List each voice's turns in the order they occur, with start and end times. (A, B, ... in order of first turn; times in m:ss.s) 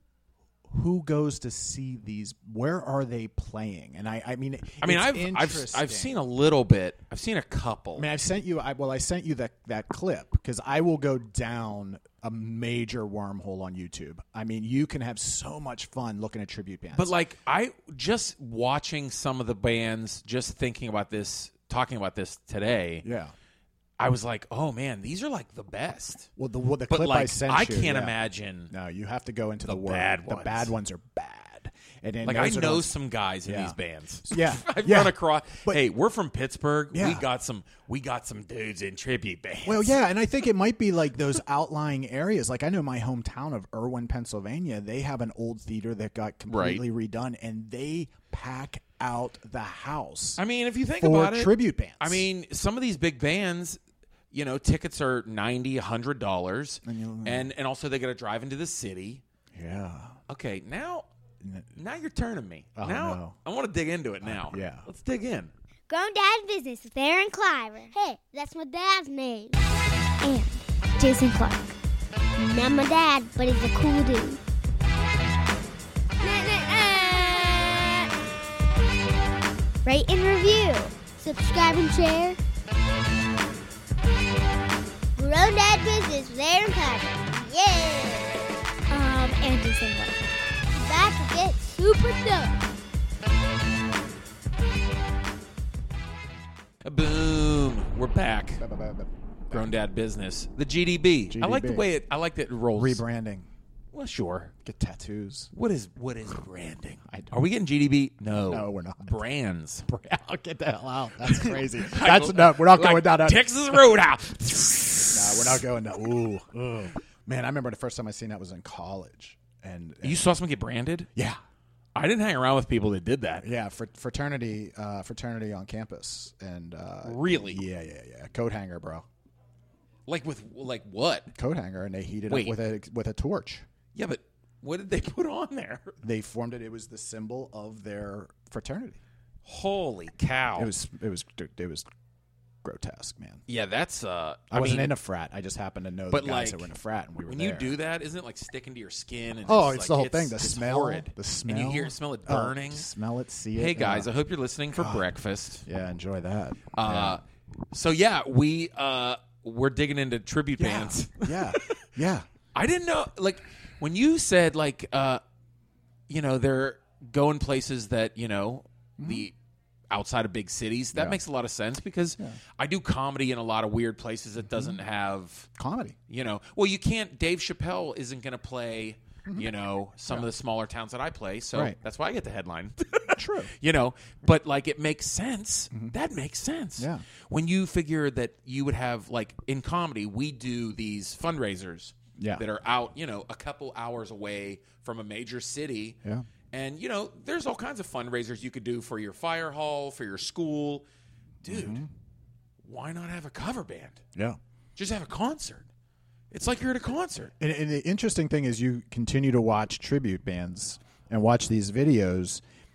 0:00.7-0:06.1 A
0:04.8-0:08.1 B
0:08.0-0:17.2 A
0:16.9-0:23.1 B
0:23.0-0:23.3 A
0:24.0-0:26.3 B
0:26.4-0:28.2 A
0:26.9-0:28.7 B
0:28.7-0:32.9 A
0:29.6-0:30.7 B
0:32.2-0:40.0 B
0:33.5-0:35.8 A
0:36.9-0:37.3 A
0:39.6-0:50.4 A
0:46.5-0:46.8 B
0:50.4-0:53.8 B
0:51.0-0:52.3 A
0:54.3-0:59.2 B
0:56.8-0:57.5 A
0:59.6-1:00.2 A
1:00.3-1:01.1 B
1:01.4-1:01.7 A
1:01.8-1:05.5 B
1:02.8-1:03.3 A
1:04.2-1:04.9 A
1:05.9-1:09.7 C
1:10.2-1:11.8 C
1:12.4-1:14.4 C
1:16.2-1:18.1 C
1:19.8-1:22.4 C
1:25.2-1:32.6 C
1:36.8-1:38.6 B
1:38.6-1:39.7 A
1:39.5-1:43.0 B
1:41.3-1:41.9 A
1:42.8-1:43.5 A
1:43.9-1:44.5 B
1:44.6-1:45.5 A
1:45.5-1:49.9 B
1:47.1-1:47.3 A
1:48.3-1:49.2 A
1:49.9-1:53.8 A
1:51.2-1:55.5 B
1:55.1-2:00.2 A
2:00.0-2:01.1 B
2:01.9-2:03.4 B
2:03.4-2:09.1 A
2:07.0-2:07.6 B
2:10.1-2:11.3 B
2:11.3-2:13.7 A
2:12.3-2:12.6 B
2:13.9-2:16.0 B
2:16.0-2:19.0 A
2:19.4-2:20.7 B
2:20.6-2:21.8 A
2:22.6-2:23.4 A
2:23.5-2:24.9 B
2:24.5-2:27.8 A
2:26.1-2:26.7 B
2:27.2-2:32.9 B
2:29.4-2:34.1 A
2:33.6-2:35.6 B
2:34.7-2:35.1 A
2:35.6-2:37.2 A
2:36.8-2:37.2 B
2:37.7-2:41.8 B
2:40.6-2:42.3 A
2:42.5-2:45.2 B
2:46.1-2:49.4 B
2:49.0-2:49.3 A
2:49.9-2:55.5 B
2:50.9-2:51.2 A
2:54.4-2:54.8 A
2:55.6-2:56.0 A
2:56.1-3:16.0 B
3:03.1-3:03.5 A
3:06.8-3:07.0 A
3:12.2-3:12.4 A
3:16.5-3:20.8 B
3:21.4-3:21.8 B
3:21.5-3:21.9 A
3:22.6-3:24.0 B
3:24.8-3:25.7 B
3:26.3-3:27.3 B
3:27.4-3:32.4 A